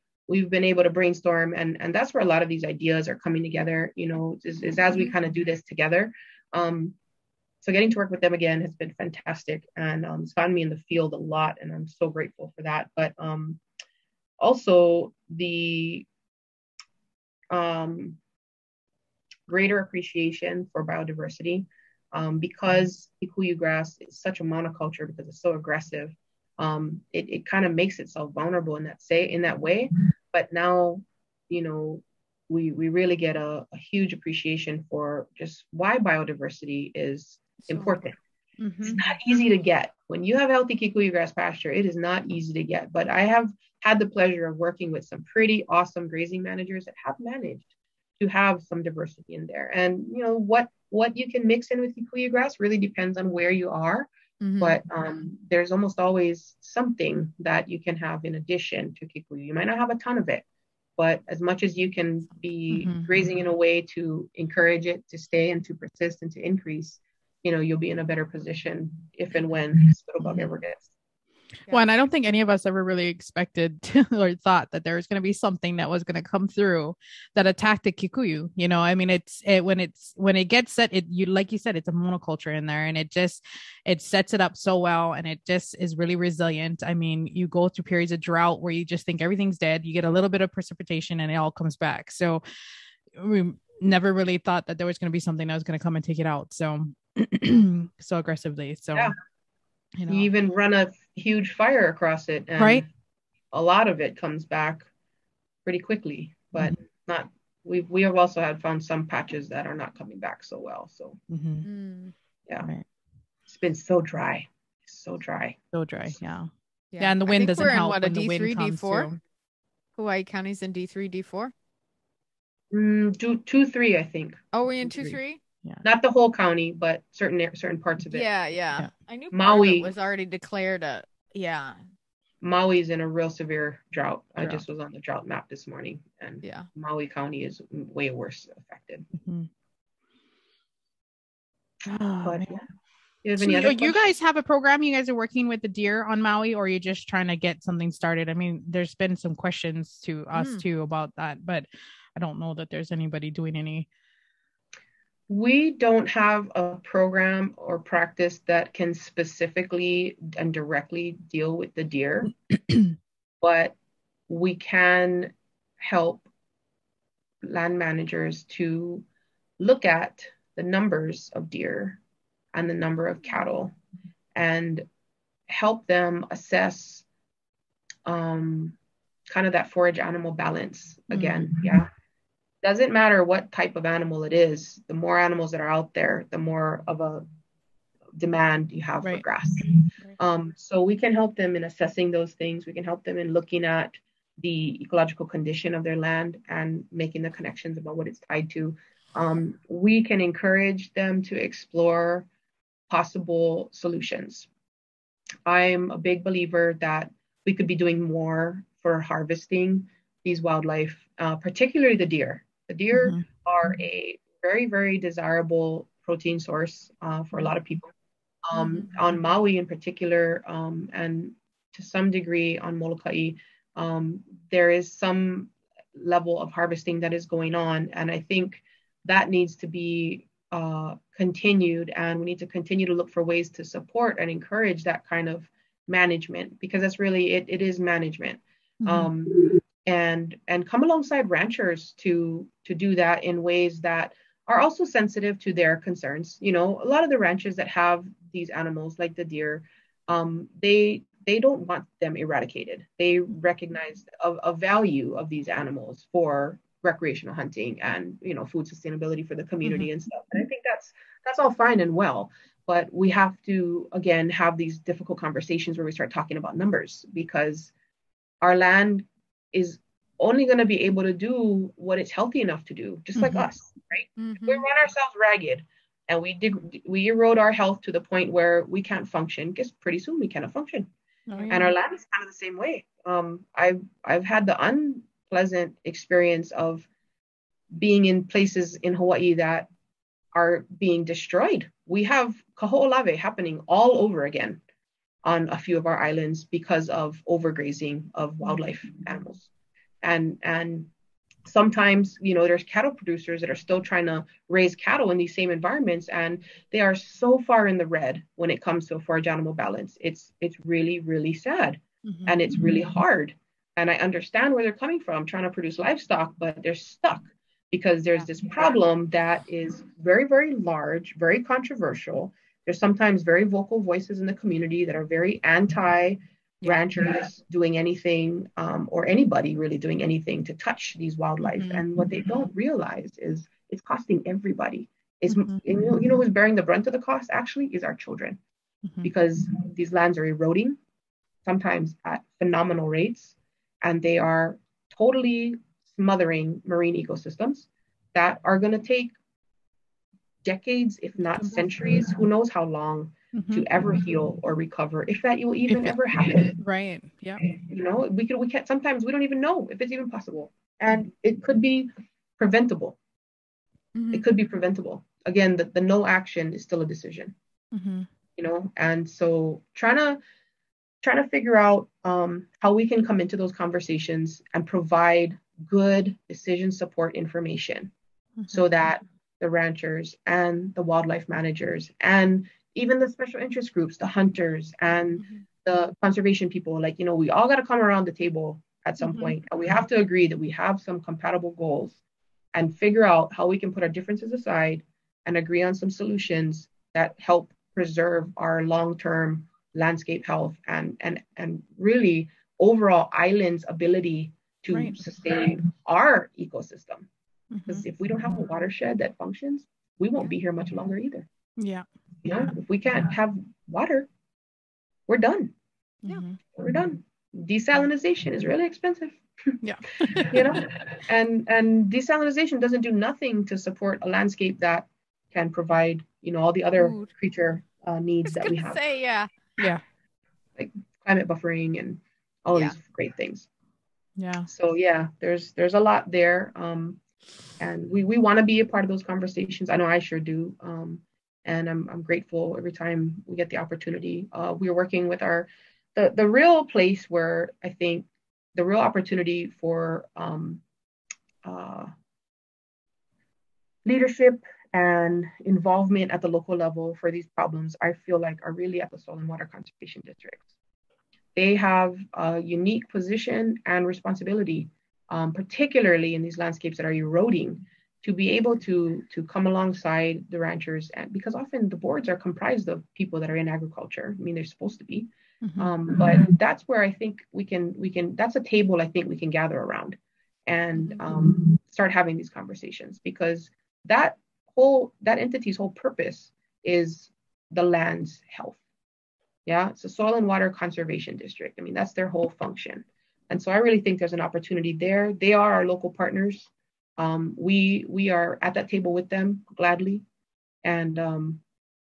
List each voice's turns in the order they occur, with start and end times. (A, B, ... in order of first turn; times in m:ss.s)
0:00.3-0:07.0 A
0:07.6-0:13.6 A
0:14.4-0:16.1 A
0:17.5-0:18.2 A
0:19.5-0:38.2 A
0:37.6-0:38.0 B
0:38.6-0:39.0 C
0:38.8-0:47.7 A
0:48.2-0:54.1 A
0:54.4-0:54.8 B
0:54.6-1:00.4 A
1:01.0-1:10.9 A
1:02.7-1:03.1 C
1:10.2-1:10.5 C
1:11.7-1:32.4 C
1:33.2-1:39.1 C
1:40.0-1:40.3 C
1:40.1-1:42.9 A
1:42.6-1:42.8 C
1:43.5-1:44.9 A
1:45.6-1:51.2 A
1:51.3-1:51.7 C
1:51.6-1:52.1 B
1:52.6-1:52.9 C
1:53.5-1:55.6 A
1:55.7-1:56.5 C
1:56.9-1:59.1 B
1:57.0-1:59.2 C
2:00.0-2:01.5 B
2:02.7-2:04.4 A
2:04.5-2:05.4 B
2:05.0-2:05.8 C
2:05.8-2:08.3 A
2:08.1-2:11.8 B
2:09.3-2:09.9 A
2:12.4-2:19.1 A
2:16.4-2:16.7 B
2:19.2-2:19.5 C
2:21.9-2:22.5 C
2:22.2-2:22.6 A
2:23.2-2:24.1 A
2:23.4-2:33.9 C
2:30.3-2:30.6 B
2:35.3-2:42.3 A
2:43.4-2:43.8 A
2:44.3-2:46.3 A
2:47.4-2:49.0 A
2:49.6-2:52.0 A
2:52.5-2:53.8 A
2:54.4-2:54.8 A
2:55.5-2:57.0 A
2:58.1-2:58.8 A
2:59.3-3:01.9 A
3:01.1-3:01.5 C
3:02.6-3:07.2 A
3:08.2-3:22.3 A
3:22.9-3:24.5 A
3:25.5-3:37.9 A
3:32.9-3:33.3 C
3:38.5-4:27.7 A
3:58.8-3:59.1 C
4:19.6-4:19.9 C
4:28.4-4:40.9 A
4:33.2-4:33.4 C
4:34.2-4:34.7 B
4:41.3-4:41.7 C
4:41.5-4:46.9 A
4:47.7-4:49.7 A
4:50.3-4:54.6 A
4:55.2-4:59.5 A
5:00.0-5:00.9 A
5:01.5-5:38.4 A
5:12.0-5:12.4 C
5:31.6-5:31.8 C
5:35.3-5:35.6 C
5:38.9-5:39.1 C
5:39.0-5:40.8 A
5:41.4-5:49.1 A
5:50.4-5:56.6 A
5:51.4-5:51.7 C
5:53.3-5:53.7 C
5:55.7-5:56.0 C
5:56.6-5:57.5 C
5:57.4-6:03.0 A
6:04.0-6:04.3 B
6:04.1-6:07.4 A
6:07.7-6:08.1 C
6:08.4-6:10.2 A
6:11.0-6:17.9 A
6:18.4-6:18.6 C
6:18.5-6:32.0 A
6:32.5-6:47.1 A
6:44.7-6:45.0 C
6:47.5-6:47.9 C
6:47.7-6:51.3 A
6:51.6-6:51.9 C
6:52.2-6:54.1 A
6:55.1-6:55.5 A
6:56.0-6:56.4 C
6:56.6-6:59.2 A
6:59.6-7:00.4 C
7:00.0-7:08.8 A
7:06.8-7:07.1 B
7:08.2-7:09.3 B
7:10.6-7:13.5 A
7:14.2-7:14.5 C
7:14.5-7:17.0 A
7:17.6-7:30.6 A
7:31.4-7:31.9 A
7:33.8-7:40.4 A
7:41.4-8:08.6 A
7:55.4-7:55.7 C
8:09.5-8:20.0 A
8:20.6-8:21.4 A